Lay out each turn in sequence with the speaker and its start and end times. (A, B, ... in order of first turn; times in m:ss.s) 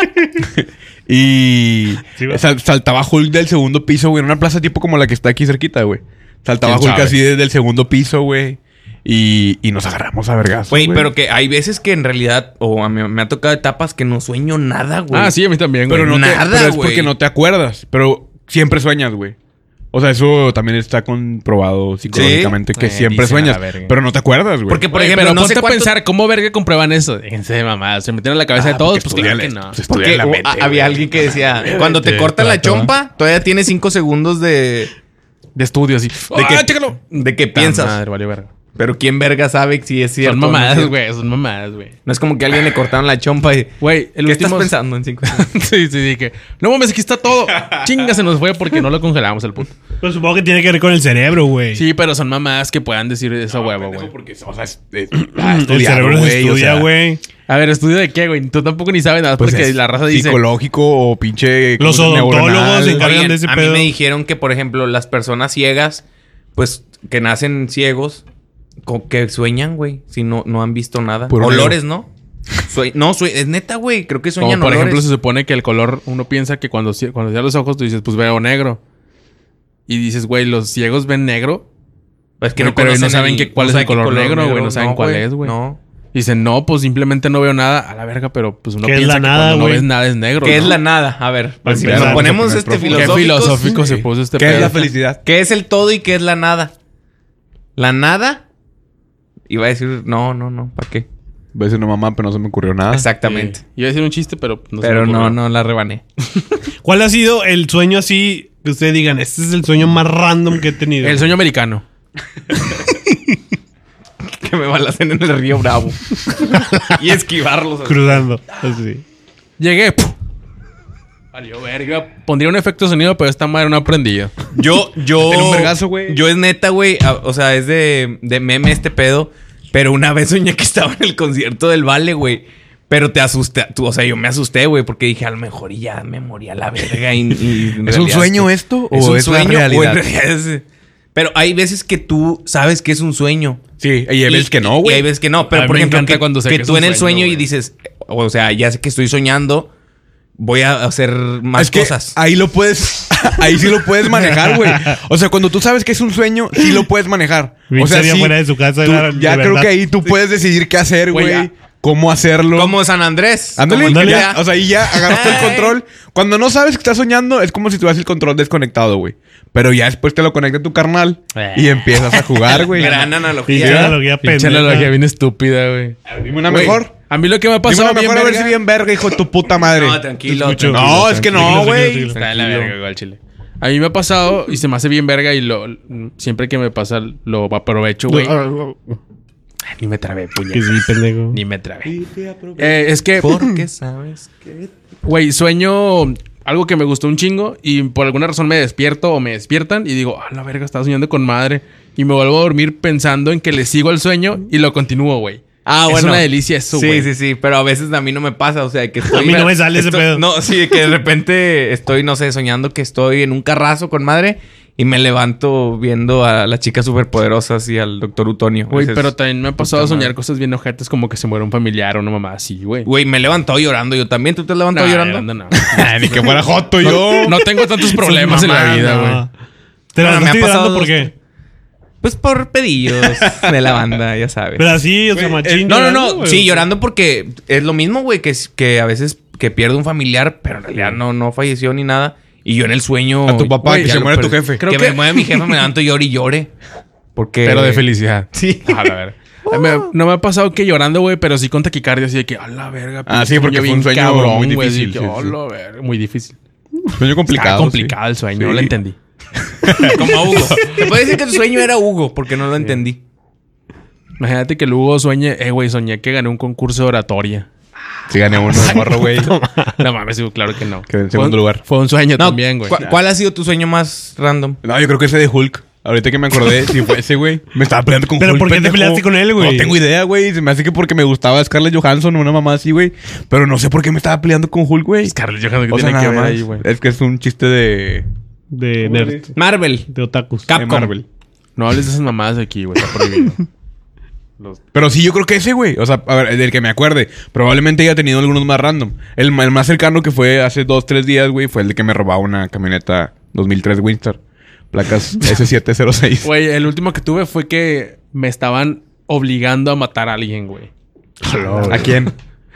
0:00.4-0:11.1 A
0:02.2-0:02.4 B
0:06.6-0:07.2 C
0:10.7-0:15.4 D
0:15.1-0:16.1 C
0:15.9-0:19.4 A
0:16.0-0:17.1 D
0:19.9-0:24.8 A
0:22.1-0:22.6 D
0:22.7-0:24.0 C
0:24.7-0:25.9 D
0:24.9-0:29.8 C
0:28.6-0:31.3 A
0:29.9-0:34.9 D
0:31.8-0:32.6 C
0:32.4-0:32.9 A
0:35.6-0:38.5 C
0:36.3-0:38.0 D
0:38.8-0:41.0 D
0:40.2-0:42.0 C
0:42.1-0:43.7 D
0:43.8-0:44.7 C
0:44.2-0:45.5 D
0:45.3-0:49.8 C
0:47.6-0:47.9 A
0:50.0-0:51.8 B
0:51.7-0:54.1 C
0:53.5-0:56.9 A
0:55.1-0:57.2 B
0:57.5-1:00.4 C
0:59.4-1:03.2 A
1:01.8-1:03.9 B
1:03.0-1:06.0 D
1:06.6-1:08.2 D
1:08.9-1:12.1 D
1:11.3-1:11.8 A
1:12.6-1:15.0 D
1:14.4-1:18.8 C
1:19.9-1:21.6 C
1:22.4-1:25.8 D
1:22.6-1:25.6 C
1:26.1-1:30.8 C
1:28.8-1:29.9 B
1:30.4-1:33.7 D
1:31.6-1:32.5 B
1:31.8-1:35.2 A
1:32.9-1:34.8 C
1:35.2-1:36.7 D
1:37.8-1:38.4 D
1:39.5-1:41.1 D
1:41.5-1:43.1 A
1:42.9-1:43.6 D
1:43.2-1:45.4 C
1:44.8-1:46.0 D
1:46.8-1:51.3 B
1:51.0-1:51.8 C
1:54.3-1:58.3 D
1:57.8-1:59.0 B
1:59.6-2:00.1 C
2:01.3-2:04.3 C
2:04.5-2:20.6 D
2:05.2-2:06.2 A
2:17.8-2:20.0 A
2:21.1-2:23.6 D
2:23.8-2:25.1 A
2:24.3-2:29.7 D
2:25.5-2:27.5 C
2:30.4-2:32.2 D
2:31.6-2:42.8 A
2:34.2-2:35.0 B
2:37.7-2:39.7 B
2:41.1-2:41.5 C
2:42.5-2:45.8 D
2:43.6-2:54.0 A
2:43.9-2:44.3 B
2:51.3-2:52.6 C
2:52.6-2:54.0 D
2:53.5-2:54.9 B
2:54.2-2:58.6 C
2:56.1-2:56.9 A
2:57.6-3:00.0 A
2:59.7-3:02.7 D
3:00.3-3:02.2 B
3:00.7-3:02.1 A
3:01.4-3:08.4 C
3:08.1-3:09.0 B
3:09.7-3:12.0 C
3:10.5-3:11.4 B
3:11.9-3:12.6 A
3:12.5-3:14.7 D
3:12.6-3:13.5 C
3:15.0-3:27.1 C
3:25.6-3:40.1 D
3:29.1-3:30.3 B
3:38.7-3:42.9 C
3:42.8-3:45.3 D
3:44.7-3:49.2 C
3:45.6-3:47.5 A
3:47.1-3:47.3 B
3:48.0-3:49.3 B
3:49.9-3:51.1 B
3:50.0-3:51.1 D
3:52.0-3:54.8 D
3:53.2-3:53.5 A
3:54.6-3:56.6 B
3:55.1-3:56.0 A
3:55.6-4:06.5 D
4:03.3-4:04.6 A
4:03.6-4:05.6 C
4:07.2-4:08.9 D
4:07.4-4:16.4 C
4:13.1-4:15.4 A
4:16.9-4:18.7 A
4:17.3-4:19.0 C
4:19.6-4:20.8 A
4:19.8-4:23.0 D
4:24.2-4:27.5 C
4:28.1-4:29.3 A
4:28.7-4:29.7 B
4:29.7-4:32.8 C
4:30.9-4:31.6 A
4:32.2-4:34.6 D
4:34.6-4:45.1 A
4:38.2-4:39.8 B
4:45.0-4:46.6 C
4:45.7-4:48.0 A
4:48.5-4:49.4 B
4:48.8-4:49.2 A
4:49.4-4:49.9 D
4:49.9-4:50.5 B
4:50.5-4:50.9 D
4:50.6-4:51.1 A
4:51.6-4:53.5 C
4:54.7-5:04.2 A
5:04.7-5:06.3 A
5:06.2-5:10.7 C
5:11.3-5:12.1 C
5:11.3-5:11.9 B
5:11.6-5:12.1 A